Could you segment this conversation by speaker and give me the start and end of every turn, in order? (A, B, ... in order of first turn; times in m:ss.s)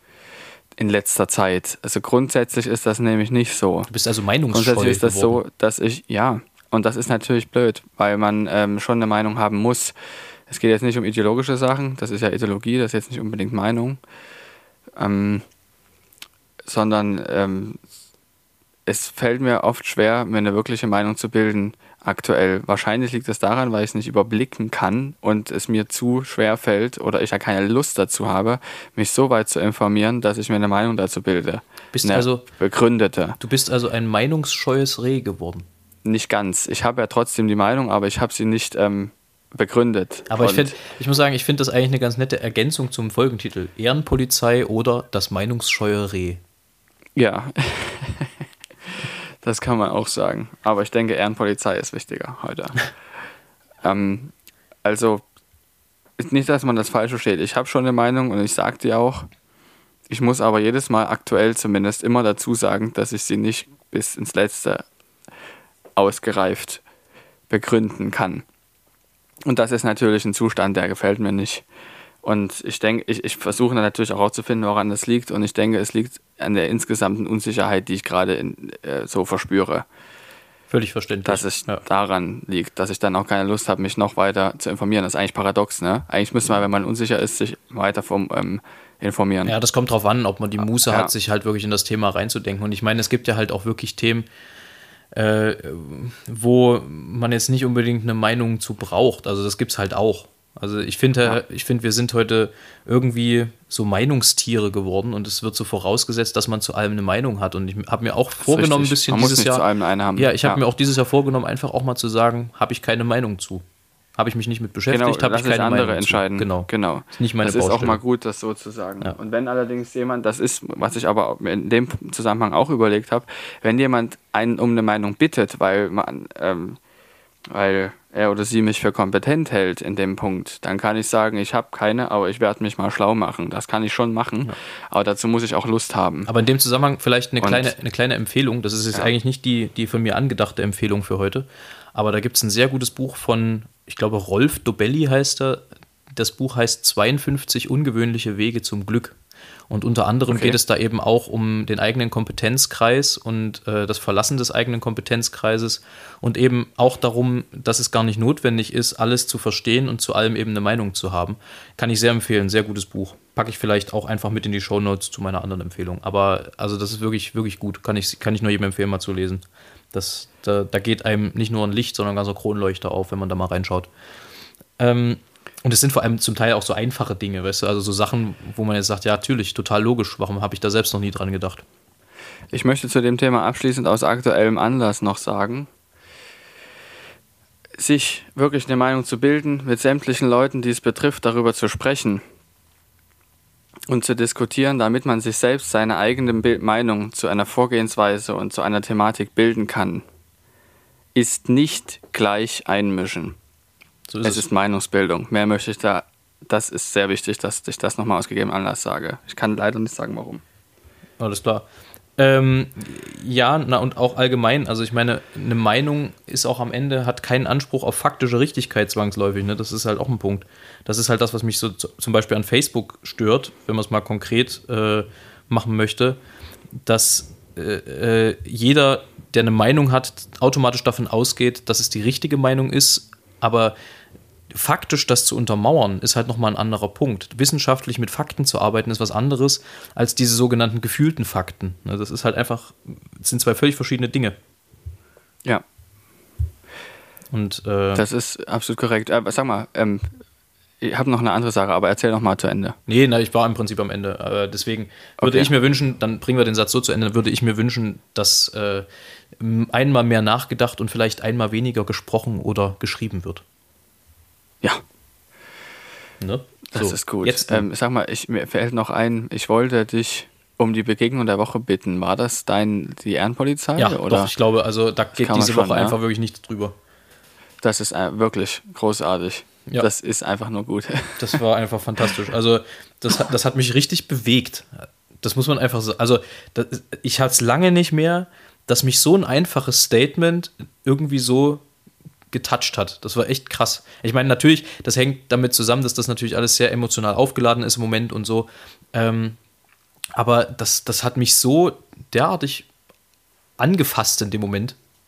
0:00.8-0:03.9 A
0:03.9-0:05.4 B
0:04.5-0:09.9 A
0:10.5-0:14.0 A
0:15.0-0:15.4 A
0:16.7-0:17.8 A
0:18.9-0:33.4 A
0:31.9-0:32.4 B
0:33.4-0:35.7 B
0:36.0-0:40.8 A
0:40.3-0:46.4 B
0:47.2-0:48.3 A
0:49.4-0:52.9 A
0:53.8-0:54.3 A
0:54.8-0:55.2 A
0:56.2-0:59.3 A
1:00.1-1:04.8 A
1:06.0-1:06.8 A
1:07.5-1:08.4 A
1:09.4-1:11.6 A
1:12.2-1:19.9 A
1:20.7-1:21.8 B
1:21.3-1:29.6 A
1:29.5-1:34.3 B
1:30.6-1:31.1 A
1:35.1-1:49.6 B
1:48.4-1:50.6 A
1:50.2-1:53.6 B
1:54.2-1:58.0 B
1:54.9-2:06.8 A
2:07.5-2:16.3 A
2:16.3-2:25.6 B
2:17.4-2:17.7 A
2:26.2-2:29.2 B
2:29.7-2:53.9 B
2:30.3-2:30.6 A
2:54.8-3:01.6 B
3:02.5-3:05.7 A
3:07.8-3:12.2 A
3:13.9-3:20.0 A
3:21.2-3:23.4 A
3:24.1-3:24.4 B
3:24.2-3:30.4 A
3:31.2-3:31.7 B
3:32.2-3:46.2 B
3:46.8-3:53.8 B
3:54.5-4:04.4 B
4:07.3-4:08.0 B
4:08.0-4:10.1 A
4:10.8-4:12.8 A
4:12.9-4:18.9 B
4:15.2-4:15.5 A
4:19.4-4:23.4 B
4:26.2-4:27.7 B
4:26.7-4:34.3 A
4:33.8-4:36.8 B
4:35.2-4:36.0 A
4:37.6-4:41.4 A
4:41.2-4:51.6 B
4:52.3-4:59.4 B
5:00.2-5:02.7 B
5:03.6-5:04.8 B